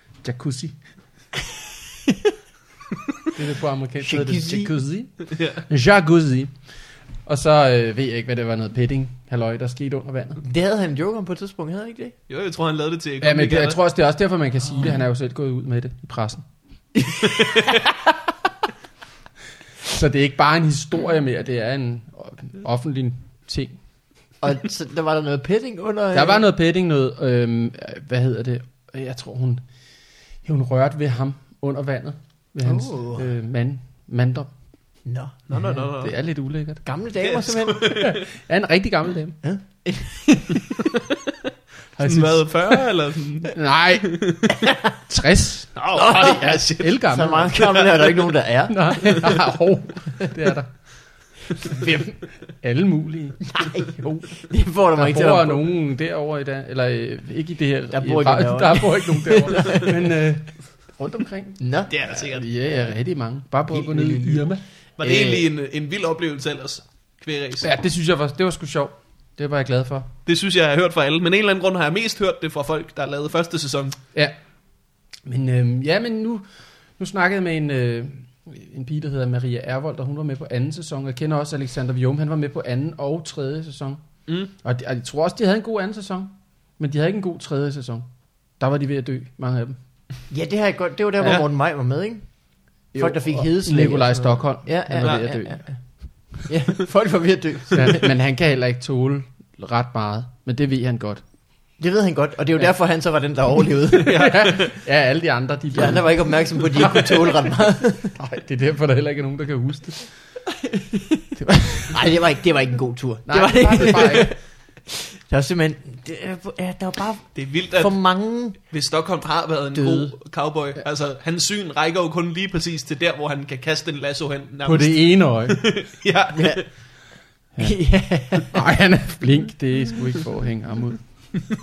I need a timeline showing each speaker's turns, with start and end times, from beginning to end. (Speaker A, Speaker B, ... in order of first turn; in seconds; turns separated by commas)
Speaker A: 0.2-0.8, Speaker A: 3.3-6.7, Speaker B: 4.0-4.7, Speaker C: 5.3-5.6, Speaker A: 7.2-10.4, Speaker B: 10.4-12.2, Speaker C: 12.3-13.8, Speaker A: 13.2-16.4, Speaker C: 17.3-17.7, Speaker A: 19.9-23.8, Speaker B: 24.4-26.4, Speaker A: 26.1-29.6, Speaker A: 30.4-34.5, Speaker B: 32.6-33.3, Speaker B: 35.0-35.7, Speaker C: 35.5-36.1, Speaker A: 35.6-36.8, Speaker B: 36.9-38.0, Speaker C: 37.2-38.2, Speaker A: 37.9-39.4, Speaker B: 39.4-40.9, Speaker A: 42.0-42.9, Speaker C: 42.0-44.5, Speaker A: 43.5-44.2, Speaker B: 44.5-44.9, Speaker A: 45.1-47.7, Speaker C: 45.8-47.0, Speaker B: 45.9-49.5, Speaker C: 47.5-48.3, Speaker A: 48.7-50.7, Speaker B: 51.6-52.2, Speaker A: 51.6-52.0, Speaker A: 52.5-54.4, Speaker B: 53.5-55.7, Speaker A: 54.9-64.6, Speaker B: 57.9-60.0, Speaker B: 61.6-61.9, Speaker C: 61.9-62.5, Speaker B: 63.7-65.5, Speaker C: 65.0-67.7, Speaker A: 67.6-70.1, Speaker C: 70.3-74.0, Speaker A: 75.2-76.5, Speaker A: 77.0-84.0, Speaker A: 84.6-88.1, Speaker A: 88.6-89.8, Speaker B: 90.3-92.3, Speaker A: 92.9-96.1, Speaker B: 92.9-98.1, Speaker A: 97.7-101.2, Speaker B: 101.8-104.3, Speaker C: 104.0-104.8, Speaker A: 104.1-110.1, Speaker B: 105.7-108.2, Speaker B: 110.5-118.6, Speaker A: 113.3-114.3, Speaker C: 117.3-118.0, Speaker C: 118.7-126.7, Speaker B: 119.7-120.1, Speaker A: 124.7-125.6, Speaker B: 126.3-126.6, Speaker B: 127.6-128.6, Speaker A: 128.3-131.0